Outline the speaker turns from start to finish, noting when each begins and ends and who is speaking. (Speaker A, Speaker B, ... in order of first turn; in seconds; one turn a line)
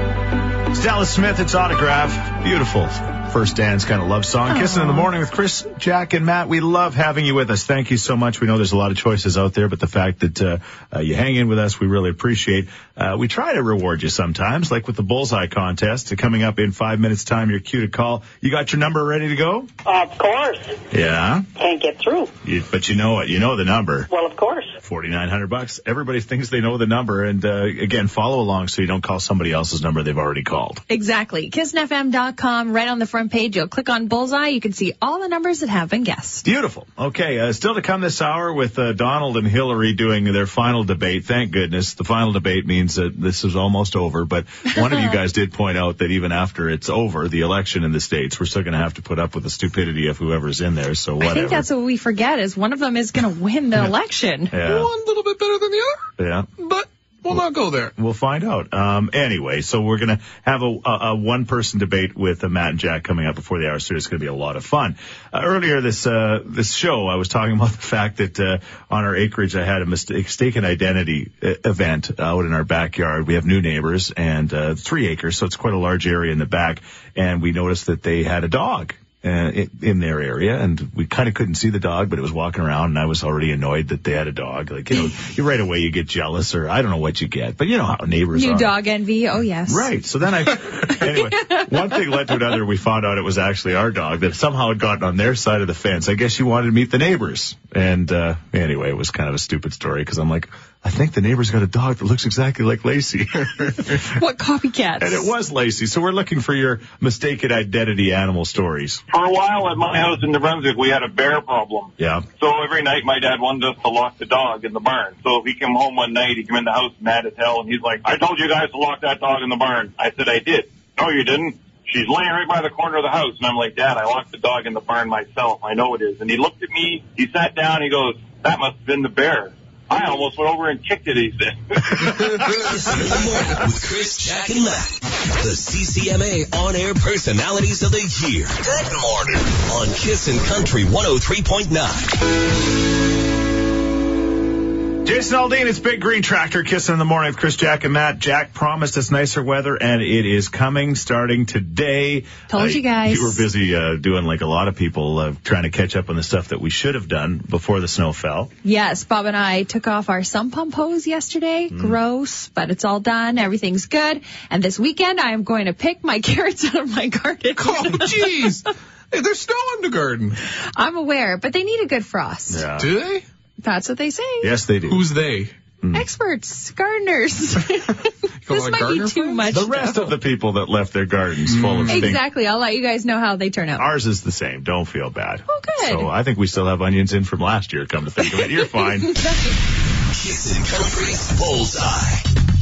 Speaker A: 0.7-19.7
Speaker B: 4.5-5.1
Speaker C: 19.9-20.8
Speaker A: 20.9-21.5
Speaker C: 21.6-22.3
Speaker A: 22.4-24.1
Speaker C: 24.1-24.8
Speaker A: 24.8-30.8
Speaker B: 30.9-36.5
Speaker A: 36.5-51.7
Speaker B: 51.2-54.5
Speaker A: 54.5-54.9
Speaker D: 54.6-57.9
Speaker A: 56.2-56.5
Speaker A: 58.0-88.7
Speaker B: 88.3-89.9
Speaker A: 89.7-104.0
Speaker B: 91.1-91.7
Speaker B: 104.0-105.3
Speaker A: 105.0-109.0
Speaker E: 109.1-132.3
Speaker A: 112.0-112.2
Speaker F: 132.5-142.2
Speaker A: 145.0-158.5
Speaker B: 152.5-153.4
Speaker B: 158.6-168.5
Speaker A: 161.7-162.0
Speaker D: 167.6-170.4
Speaker B: 170.8-172.7
Speaker A: 172.5-172.9
Speaker D: 172.8-173.2
Speaker B: 173.6-174.6
Speaker A: 174.4-175.1
Speaker D: 174.9-175.5
Speaker B: 175.9-180.2
Speaker D: 178.5-179.6
Speaker A: 179.5-182.2
Speaker D: 181.5-182.2
Speaker B: 181.9-183.9
Speaker A: 183.8-189.2
Speaker B: 185.5-186.1
Speaker B: 189.1-189.5
Speaker F: 190.1-192.3